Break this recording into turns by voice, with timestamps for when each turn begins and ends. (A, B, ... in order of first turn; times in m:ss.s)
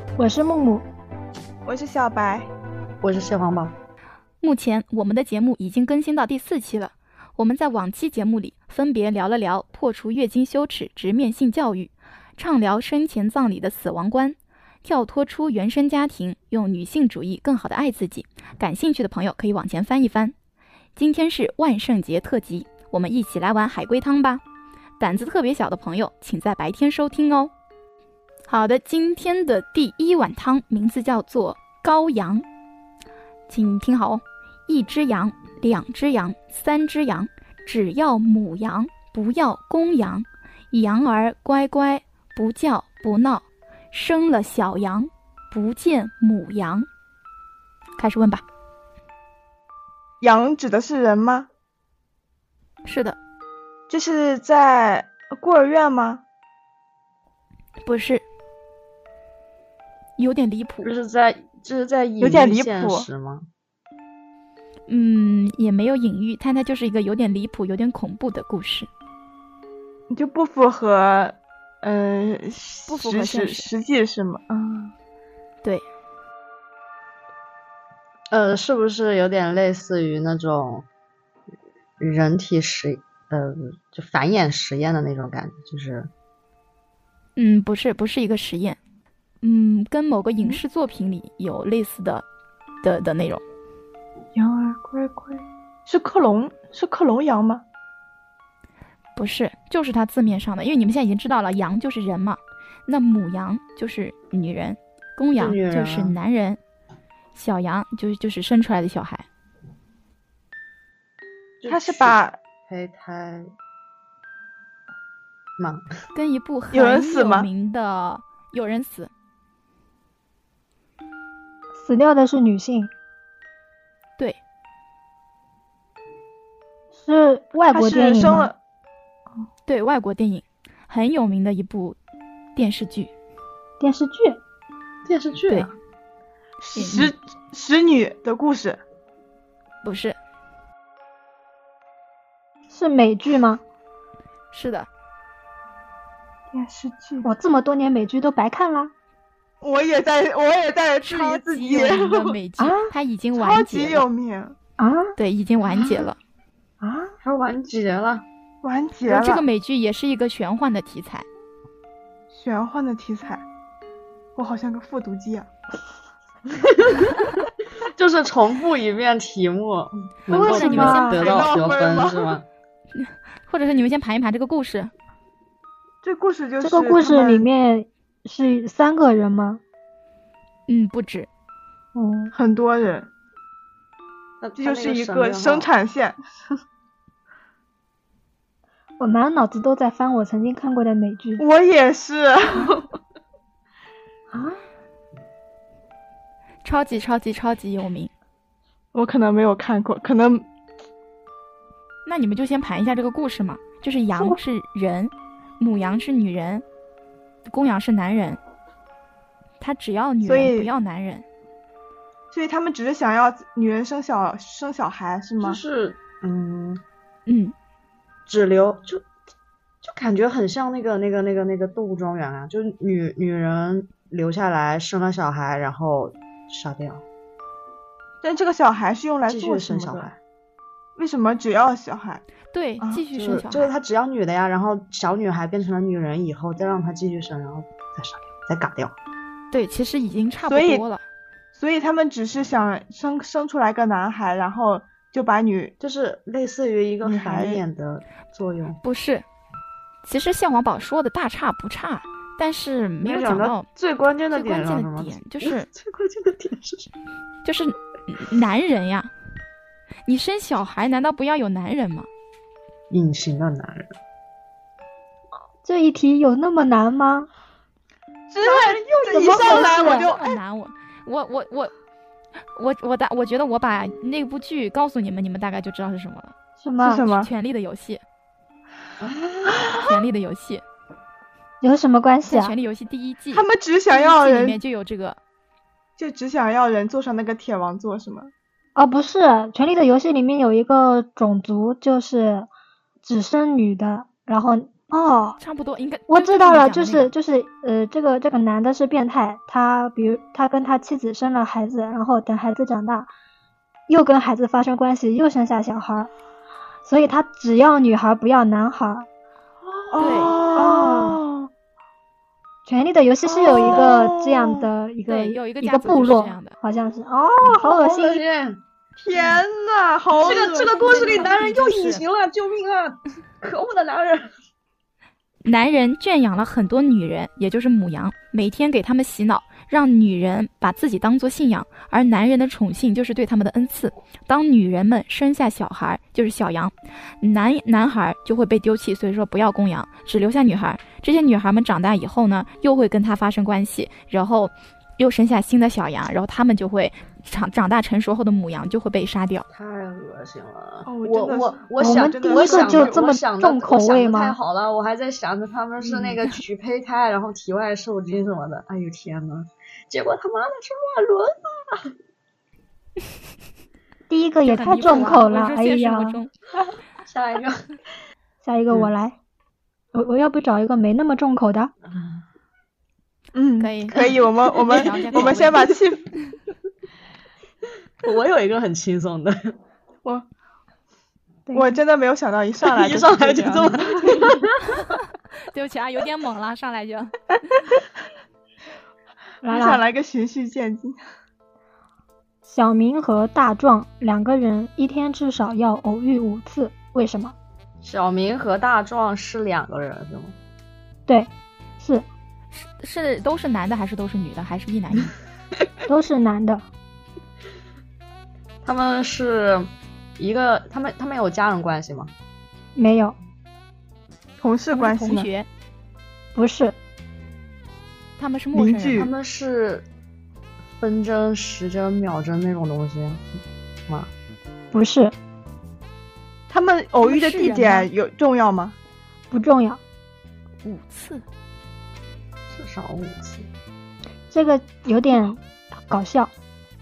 0:00.2-0:00.8 A
0:01.6-0:02.5 B
0:03.0-0:03.8 C
0:04.4-0:20.3 D
0:21.0-0:24.4 D
0:25.0-0:27.5 D
0:28.5-0:32.4 D
0:33.5-0:46.9 D
0:48.0-0:48.4 D
0:50.2-0:51.5 B
0:52.8-0:53.2 D
0:53.9-0:56.2 B
0:57.8-0:58.2 D
1:00.2-1:00.9 D
1:00.8-1:03.5 C
1:02.2-1:03.1 B
1:04.9-1:08.9 D
1:10.1-1:14.9 B
1:12.9-1:13.7 D
1:18.3-1:20.9 C
1:22.0-1:26.1 C
1:27.4-1:28.8 D
1:29.4-1:32.2 D
1:32.8-1:33.4 D
1:34.3-1:37.6 B
1:39.2-1:46.6 D
1:45.4-1:46.2 C
1:47.3-1:49.2 D
1:51.6-1:53.5 C
1:51.7-1:52.4 B
1:55.6-1:55.9 C
1:56.1-1:59.1 D
1:56.7-1:57.5 B
2:01.7-2:02.9 A
2:06.9-2:08.5 A
2:07.7-2:08.6 B
2:09.7-2:12.0 D
2:12.6-2:13.1 D
2:13.8-2:14.4 A
2:15.0-2:15.7 C
2:16.6-2:18.8 B
2:16.8-2:17.1 D
2:19.8-2:20.1 D
2:22.7-2:23.6 A
2:24.5-2:24.9 D
2:26.5-2:27.3 B
2:27.2-2:28.9 A
2:29.6-2:32.4 B
2:31.0-2:34.0 D
2:32.6-2:32.9 A
2:33.3-2:34.6 B
2:34.8-2:35.1 A
2:35.2-2:36.2 D
2:35.7-2:36.0 B
2:36.8-2:37.1 A
2:37.2-2:38.2 C
2:38.6-2:39.4 B
2:39.1-2:41.2 D
2:42.3-2:43.4 B
2:44.4-2:45.5 B
2:46.5-2:47.1 C
2:47.8-2:52.4 C
2:50.3-2:51.2 A
2:50.4-2:51.6 D
2:51.0-2:52.4 B
2:52.9-2:54.9 D
2:56.0-2:57.4 B
2:56.6-2:59.6 A
3:00.7-3:01.3 D
3:01.9-3:02.3 A
3:02.3-3:03.1 B
3:04.4-3:05.7 C
3:04.6-3:06.2 B
3:09.0-3:11.4 A
3:11.4-3:12.9 B
3:14.3-3:14.6 A
3:16.6-3:18.1 D
3:18.9-3:20.4 B
3:22.0-3:26.6 D
3:27.5-3:28.4 D
3:29.6-3:31.2 D
3:30.2-3:30.7 B
3:32.3-3:35.6 B
3:35.4-3:36.8 C
3:37.2-3:37.5 D
3:38.3-3:39.0 C
3:39.8-3:47.0 C
3:48.2-3:50.1 B
3:49.3-3:50.2 C
3:51.0-3:52.2 B
3:52.5-3:53.7 D
3:52.8-3:53.0 B
3:53.2-3:58.9 C
3:59.5-4:01.0 D
4:00.4-4:00.8 B
4:01.5-4:05.7 B
4:05.8-4:08.8 C
4:07.0-4:07.6 B
4:08.8-4:09.2 D
4:10.0-4:13.7 D
4:13.0-4:16.9 C
4:14.3-4:15.7 D
4:17.4-4:19.1 D
4:20.0-4:22.1 D
4:22.9-4:24.0 C
4:25.6-4:27.3 A
4:28.3-4:30.4 B
4:28.5-4:30.1 A
4:29.4-4:31.7 D
4:32.6-4:36.3 D
4:36.6-4:37.0 A
4:36.8-4:37.3 B
4:37.0-4:38.0 D
4:39.0-4:39.8 C
4:39.8-4:40.6 D
4:41.6-4:42.5 A
4:42.2-4:45.2 D
4:43.3-4:44.6 B
4:46.0-4:48.3 B
4:48.8-4:52.5 A
4:53.0-4:55.4 A
4:55.4-4:57.1 D
4:56.1-5:03.1 A
5:03.9-5:06.1 A
5:06.8-5:09.1 A
5:09.9-5:11.5 B
5:10.0-5:10.4 D
5:10.5-5:11.2 A
5:12.6-5:18.2 A
5:13.3-5:14.5 C
5:15.1-5:16.6 D
5:17.4-5:18.6 C
5:19.0-5:21.3 B
5:19.1-5:19.4 D
5:20.2-5:24.3 C
5:20.5-5:22.0 D
5:25.4-5:49.4 D
5:49.5-6:01.9 C
5:50.8-5:53.0 B
5:51.8-5:54.4 A
6:04.1-6:06.2 A
6:04.5-6:06.3 D
6:07.0-6:07.6 C
6:08.4-6:09.2 A
6:09.9-6:11.7 A
6:11.9-6:12.2 C
6:13.3-6:16.1 B
6:13.6-6:15.7 D
6:14.6-6:15.7 C
6:18.0-6:19.6 C
6:21.5-6:21.8 A
6:21.5-6:24.4 B
6:22.6-6:24.5 C
6:25.5-6:27.1 D
6:29.4-6:29.8 A
6:29.5-6:30.9 B
6:32.4-6:37.3 A
6:37.8-6:40.3 C
6:41.1-6:42.0 A
6:42.5-6:45.1 D
6:45.9-6:46.6 A
6:48.6-6:52.1 C
6:52.7-6:53.2 A
6:54.4-6:55.3 B
6:54.7-6:55.5 D
6:56.3-6:56.8 A
6:58.2-6:59.1 D
6:58.5-6:59.1 B
6:59.0-6:59.8 C
7:00.8-7:04.1 C
7:04.7-7:05.1 A
7:06.5-7:08.8 B
7:07.0-7:07.9 D
7:09.3-7:09.8 A
7:10.6-7:11.2 D
7:12.5-7:13.5 C
7:14.3-7:16.3 A